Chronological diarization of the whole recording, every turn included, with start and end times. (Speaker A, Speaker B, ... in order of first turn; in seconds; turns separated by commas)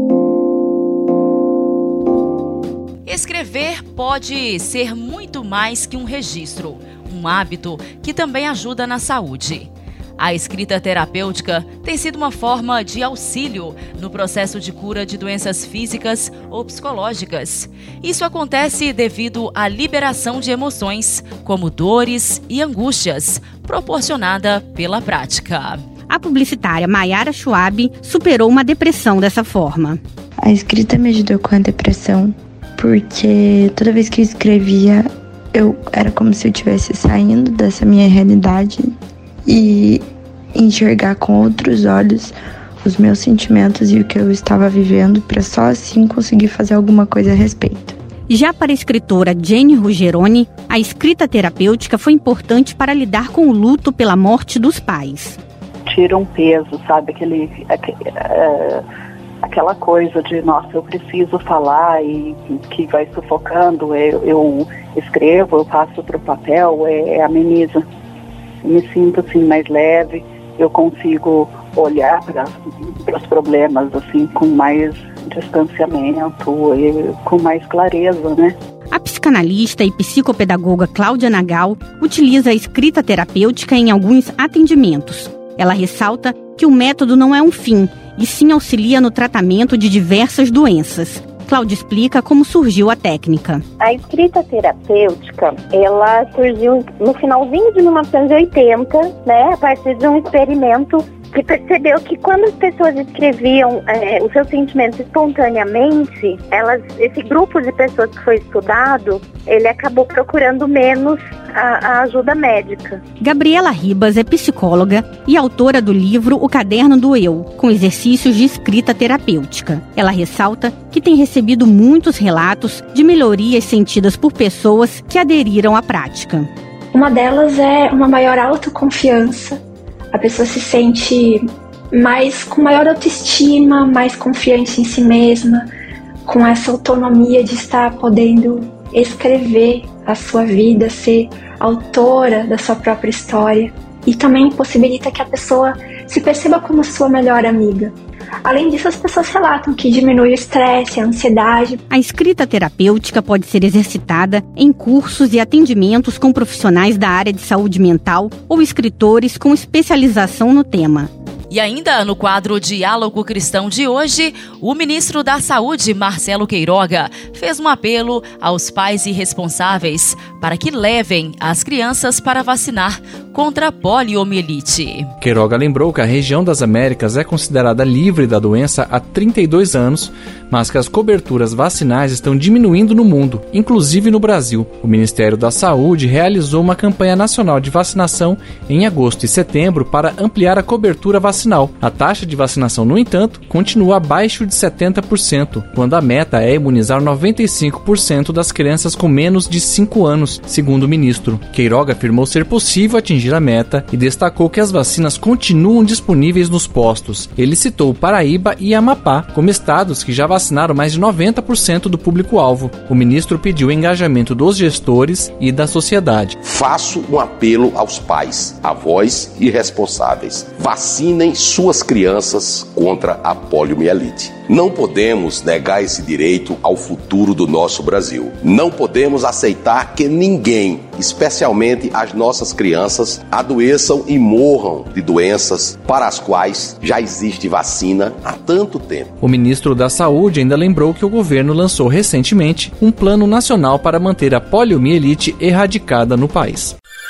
Speaker A: 3.1-25.8, Speaker B: 26.1-30.0, Speaker C: 30.4-48.0, Speaker B: 48.3-55.4, Speaker D: 55.9-58.9, Speaker D: 59.4-67.9, Speaker D: 68.6-78.6, Speaker B: 78.9-93.6, Speaker E: 93.8-113.0, Speaker B: 113.2-126.5, Speaker F: 126.9-129.6, Speaker F: 130.1-135.7, Speaker F: 136.2-147.9, Speaker F: 148.4-151.8, Speaker B: 151.9-161.1, Speaker A: 161.5-175.1, Speaker G: 175.2-216.4, Speaker H: 216.4-239.1, Speaker G: 239.2-246.8